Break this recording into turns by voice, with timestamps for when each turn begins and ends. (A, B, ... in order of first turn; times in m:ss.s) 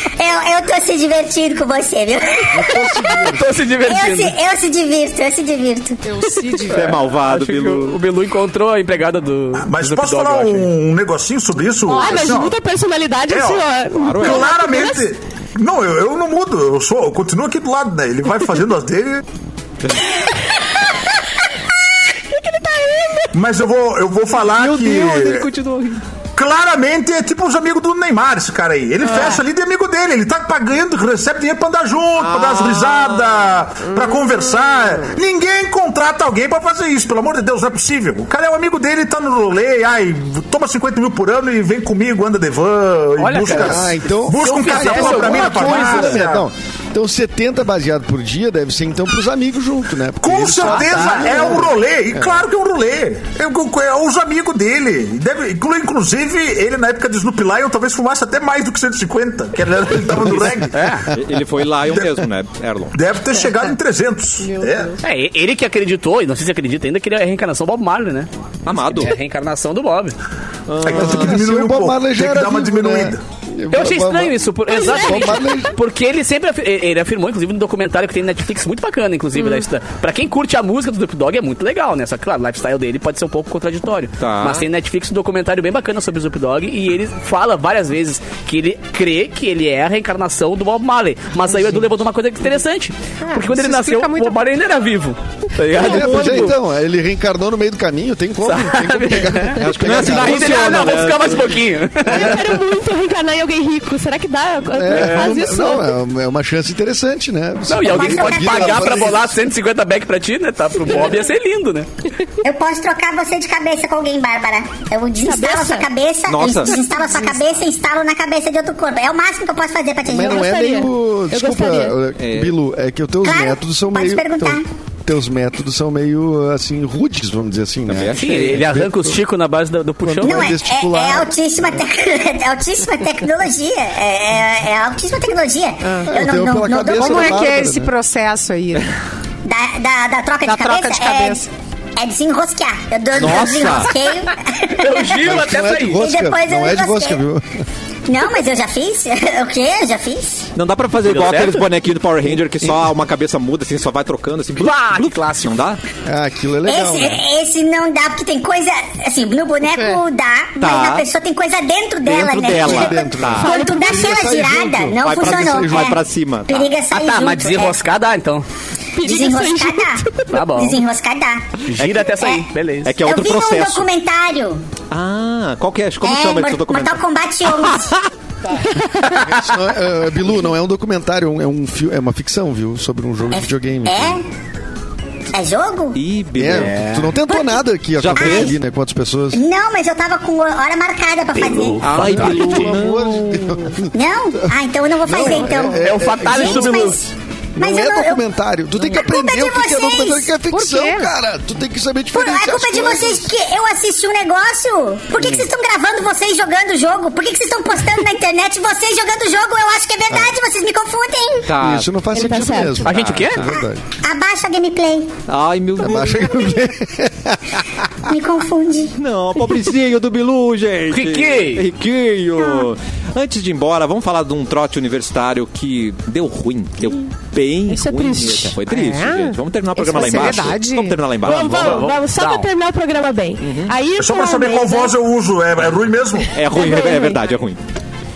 0:00.2-0:02.8 A
0:02.5-0:03.6 B
0:03.3-0:04.3 C
0:03.8-0:06.0 A
0:06.0-0:07.0 D
0:06.7-0:08.0 E
0:07.2-0:10.7 C
0:09.6-0:12.6 F
0:11.9-0:12.3 D
0:11.9-0:15.0 G
0:13.3-0:13.6 F
0:13.9-0:14.5 E
0:14.2-0:19.2 F
0:19.8-0:20.1 E
0:22.3-0:23.3 G
0:23.3-0:25.5 F
0:24.5-0:26.0 E
0:26.3-0:46.5 F
0:32.2-0:33.4 E
0:43.2-0:46.2 C
0:43.5-0:52.3 B
0:50.2-1:00.8 F
0:50.6-0:51.6 C
1:00.7-1:01.1 C
1:01.1-1:03.0 E
1:01.9-1:02.2 F
1:02.9-1:05.0 F
1:04.4-1:05.0 D
1:05.0-1:10.2 C
1:08.6-1:09.1 E
1:10.7-1:11.3 E
1:10.8-1:13.2 F
1:10.8-1:15.7 B
1:13.7-1:36.5 C
1:14.7-1:15.4 G
1:19.4-1:19.6 G
1:24.2-1:24.6 E
1:33.2-1:34.4 D
1:35.7-1:41.2 B
1:35.8-1:36.1 G
1:38.4-1:42.4 C
1:39.6-1:41.6 E
1:42.1-1:46.0 G
1:42.1-1:42.4 B
1:44.7-1:49.4 B
1:44.9-1:45.4 C
1:47.7-1:51.9 C
1:47.8-1:49.1 A
1:52.4-2:00.5 A
1:55.2-1:55.9 G
1:56.3-1:56.8 E
1:56.7-1:57.4 G
2:00.1-2:09.2 B
2:00.1-2:02.0 G
2:02.2-2:02.5 E
2:03.2-2:04.7 A
2:07.9-2:08.6 E
2:08.1-2:10.5 C
2:10.0-2:11.3 B
2:10.2-2:17.4 A
2:15.8-2:16.1 D
2:16.1-2:17.9 B
2:16.8-2:18.8 D
2:19.4-2:25.3 A
2:20.4-2:21.5 D
2:23.1-2:23.9 E
2:24.8-2:26.0 C
2:25.0-2:27.6 B
2:25.9-2:27.2 A
2:28.1-2:30.5 A
2:30.6-2:35.8 E
2:31.0-2:31.6 C
2:34.6-2:35.6 C
2:36.0-2:37.2 B
2:36.6-2:47.8 A
2:39.7-2:40.0 D
2:40.6-2:41.1 E
2:42.0-2:43.5 E
2:42.4-2:46.0 B
2:43.4-2:44.3 G
2:45.0-2:46.7 E
2:46.9-2:48.4 C
2:48.9-2:50.4 G
2:49.0-2:51.6 A
2:50.3-2:50.8 C
2:51.6-2:52.9 C
2:51.8-2:52.1 E
2:52.2-2:52.5 A
2:52.8-2:53.9 E
2:53.0-2:54.6 A
2:54.9-2:57.0 E
2:56.0-2:58.0 A
2:58.6-2:59.2 G
2:59.2-3:04.2 B
3:03.3-3:04.2 A
3:05.3-3:06.0 A
3:05.9-3:06.8 E
3:06.3-3:09.4 B
3:06.4-3:07.1 C
3:08.0-3:08.6 E
3:08.2-3:08.5 A
3:09.3-3:12.0 A
3:11.4-3:12.5 C
3:11.8-3:13.7 E
3:11.9-3:16.9 B
3:13.9-3:17.0 A
3:15.6-3:17.0 C
3:17.6-3:18.2 A
3:17.6-3:23.3 B
3:18.8-3:20.3 A
3:20.5-3:21.1 D
3:22.1-3:31.5 A
3:31.5-3:32.0 E
3:31.5-3:33.8 B
3:32.1-3:32.8 G
3:32.8-3:33.5 C
3:32.9-3:33.4 E
3:34.0-3:35.1 A
3:35.3-3:36.3 E
3:35.8-3:38.1 B
3:38.0-3:39.0 A
3:38.9-3:51.8 E
3:40.9-3:41.6 C
3:47.7-3:48.6 G
3:48.7-3:51.0 D
3:51.2-3:54.9 G
3:51.2-3:52.5 C
3:53.4-3:53.8 E
3:53.9-3:56.3 F
3:56.3-3:57.6 E
3:56.5-3:57.3 G